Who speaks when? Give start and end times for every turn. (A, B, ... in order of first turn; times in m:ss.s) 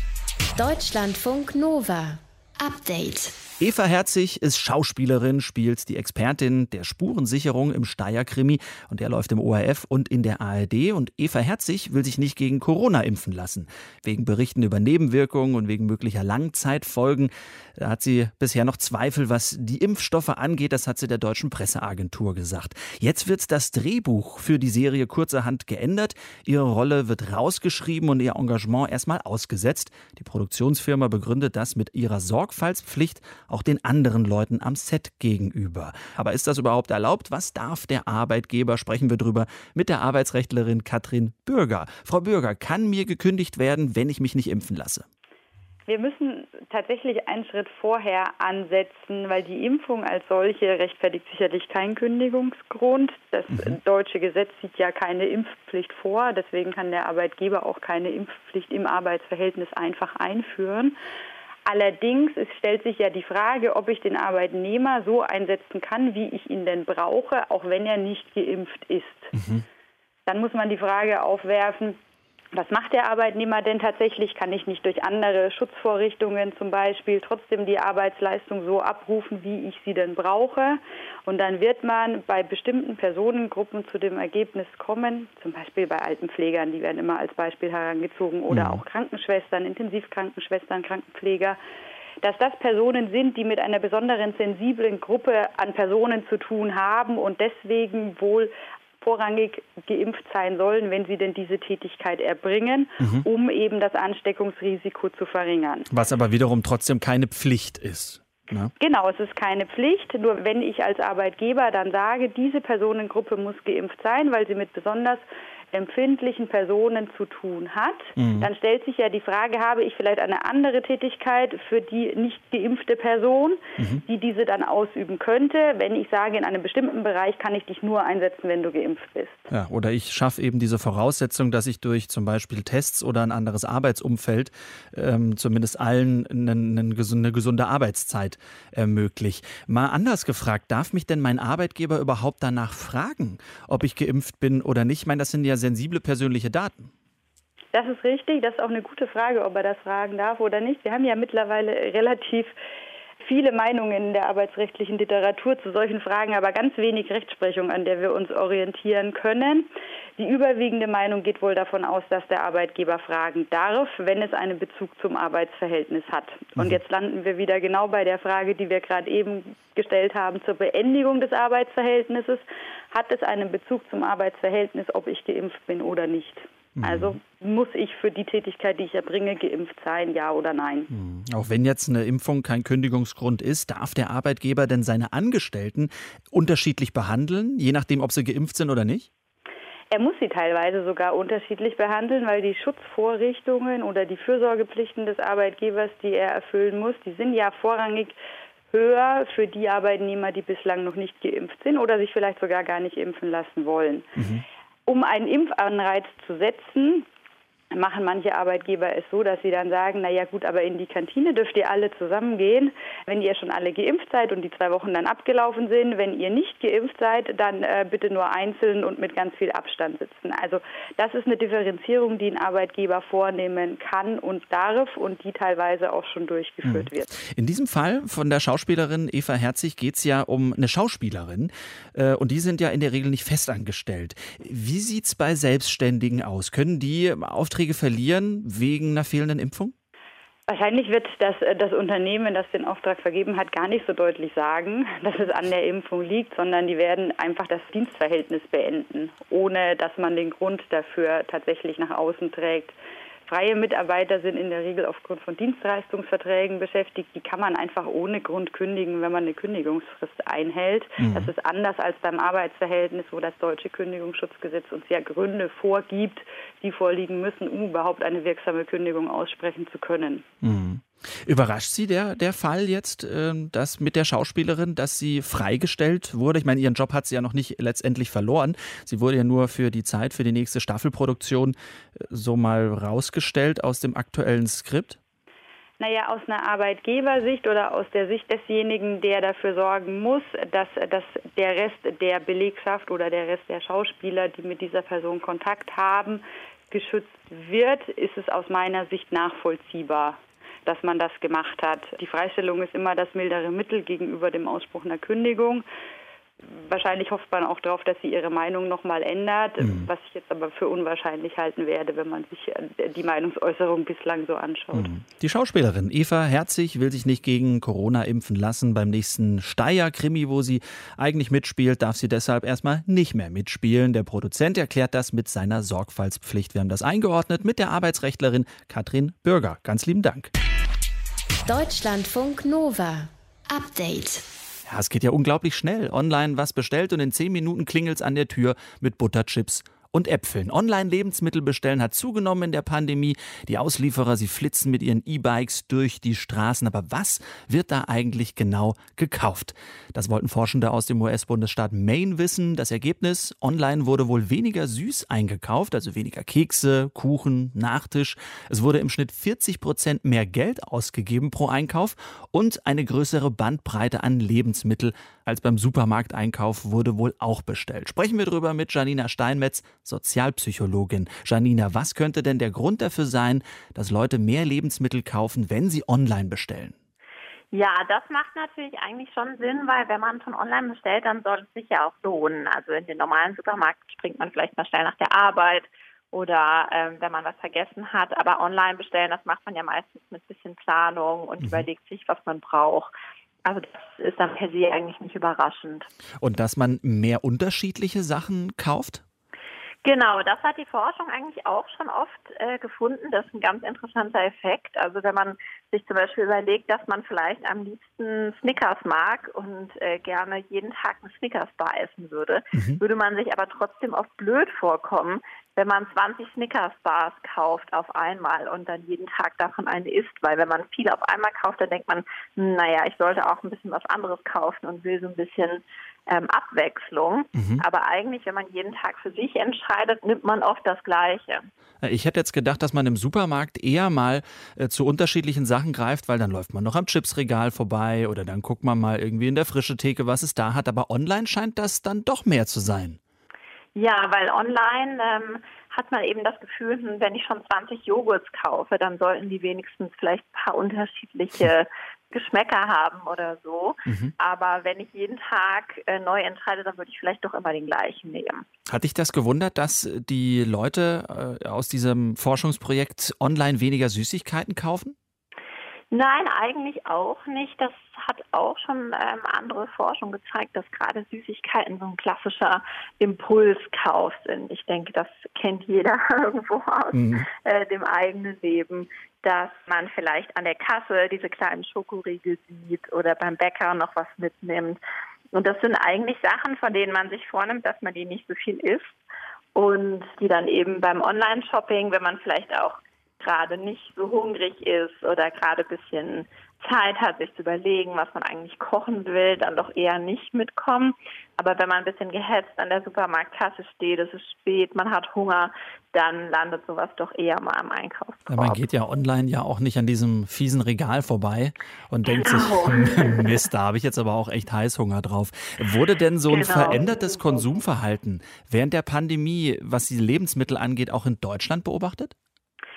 0:00.6-0:03.4 A
0:03.6-0:45.0 B
0:45.9-1:01.0 C
0:53.5-0:53.8 B
1:01.6-1:09.3 C
1:09.3-1:09.6 B
1:10.3-1:12.0 C
1:12.5-1:31.6 C
1:28.5-1:28.8 B
1:32.2-1:45.9 C
1:43.0-1:43.2 B
1:45.9-1:48.7 B
1:48.8-2:09.5 C
1:58.2-1:58.5 B
2:03.8-2:04.0 B
2:09.5-2:26.9 B
2:27.7-2:32.5 C
2:33.2-3:00.9 C
2:56.8-2:57.2 B
3:00.9-3:09.1 B
3:09.9-3:18.2 C
3:18.7-3:24.1 C
3:24.2-3:24.4 B
3:24.9-3:27.0 C
3:27.7-3:47.1 C
3:46.6-3:59.7 B
4:00.5-4:12.7 C
4:13.3-4:30.2 C
4:21.0-4:21.3 B
4:30.4-4:45.0 B
4:45.8-5:05.6 C
5:06.4-5:14.9 C
5:09.6-5:09.9 B
5:14.7-5:30.3 B
5:31.4-5:34.2 A
5:34.7-6:16.7 B
6:17.5-6:32.9 D
6:31.4-6:31.6 B
6:33.4-6:35.9 D
6:36.2-6:39.0 B
6:39.8-7:11.4 D
6:52.5-6:52.8 B
7:07.3-7:07.6 B
7:11.8-7:23.0 B
7:23.8-7:38.4 D
7:33.9-7:34.1 B
7:38.7-7:44.9 B
7:45.9-8:04.8 D
7:56.9-7:57.2 B
8:05.3-8:09.0 D
8:09.5-8:28.6 D
8:28.3-8:42.1 B
8:32.1-8:33.4 D
8:36.3-8:37.6 D